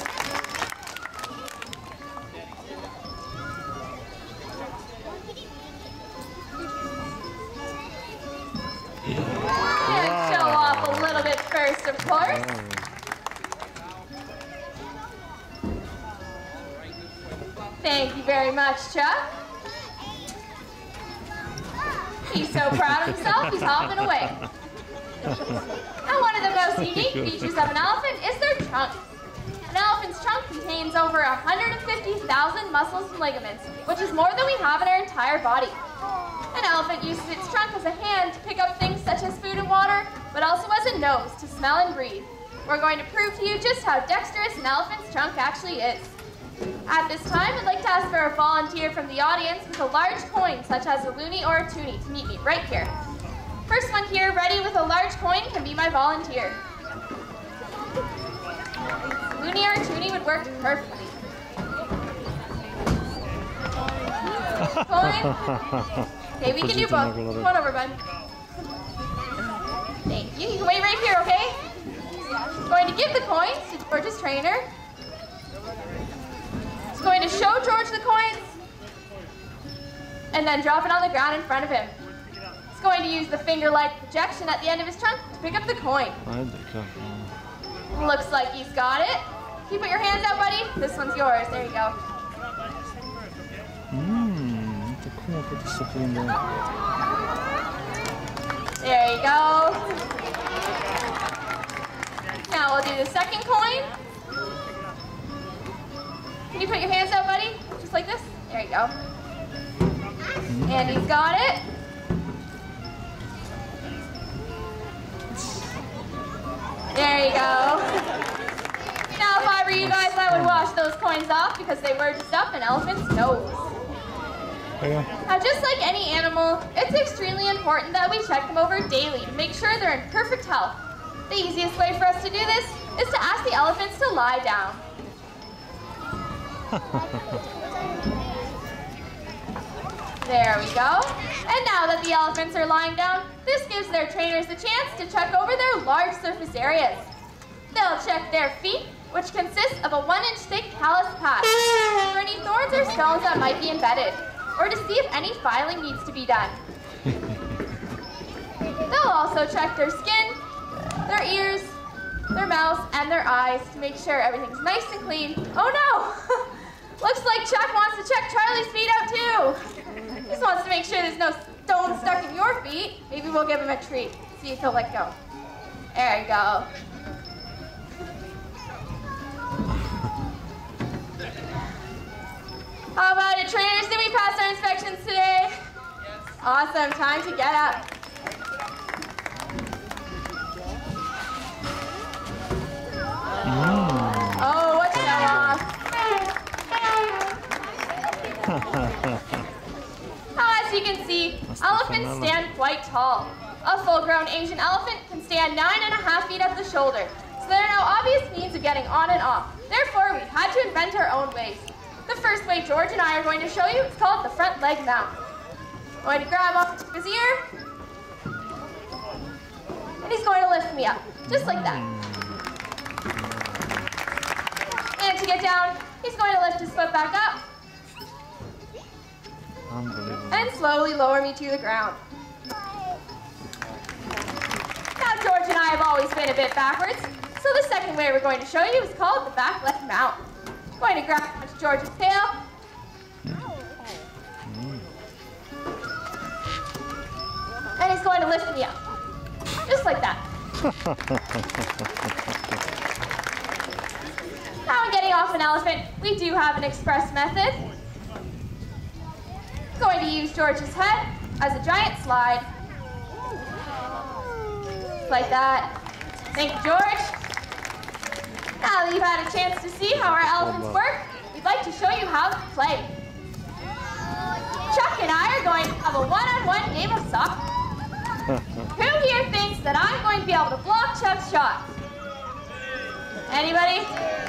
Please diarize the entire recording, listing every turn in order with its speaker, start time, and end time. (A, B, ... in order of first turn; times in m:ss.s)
0:09.1-0:11.4 A
0:09.8-0:12.5 B
0:12.0-0:12.9 A
0:17.8-0:19.3 B
0:22.3-0:24.4 B
0:22.3-0:24.5 A
0:25.2-0:25.6 A
0:26.0-0:29.0 B
0:26.8-0:27.7 A
0:29.6-0:35.8 B
0:36.5-0:46.1 B
0:46.8-0:52.9 B
0:53.7-0:56.6 B
0:59.4-1:01.2 B
1:04.6-1:07.5 A
1:04.8-1:05.4 B
1:06.4-1:08.0 B
1:10.0-1:11.6 B
1:12.6-1:14.7 B
1:16.9-1:18.5 B
1:20.3-1:22.0 B
1:22.7-1:26.2 B
1:26.2-1:27.3 A
1:27.9-1:32.0 B
1:33.9-1:36.4 A
1:38.8-1:40.0 B
1:42.4-1:43.9 B
1:46.5-1:48.9 B
1:50.5-1:51.1 A
1:50.6-1:51.6 B
1:56.9-1:58.2 B
1:59.1-2:03.7 B
1:59.7-2:00.7 A
2:04.8-2:05.1 A
2:05.3-2:10.8 B
2:11.3-2:14.8 B
2:16.8-2:17.1 A
2:20.2-2:27.1 B
2:27.7-2:36.6 B
2:38.9-2:40.4 B
2:41.0-2:41.8 B
2:42.3-2:49.7 B
2:50.2-2:55.1 B
2:55.9-2:56.7 B
3:03.0-3:05.6 B
3:06.4-3:07.8 B
3:13.4-3:15.6 A
3:14.4-3:15.7 B
3:18.4-3:19.4 A
3:20.4-3:35.2 B
3:21.5-3:22.4 A
3:36.0-3:37.5 B
3:40.0-3:41.8 B
3:41.3-3:42.4 A
3:43.1-3:43.9 A
3:45.0-3:47.4 B
3:49.7-3:50.6 A
3:50.3-3:52.0 B
3:55.0-4:00.2 B
4:00.8-4:02.4 B
4:03.2-4:03.5 A
4:04.4-4:04.9 A
4:07.8-4:08.8 B
4:09.6-4:10.2 B
4:10.6-4:11.4 A
4:14.6-4:17.6 B
4:19.8-4:22.5 B
4:25.0-4:25.7 B
4:26.3-4:27.2 B
4:28.6-4:32.9 B
4:29.9-4:30.8 A
4:34.7-4:37.4 B
4:38.3-4:38.7 A
4:38.7-4:41.6 B
4:43.3-4:43.9 B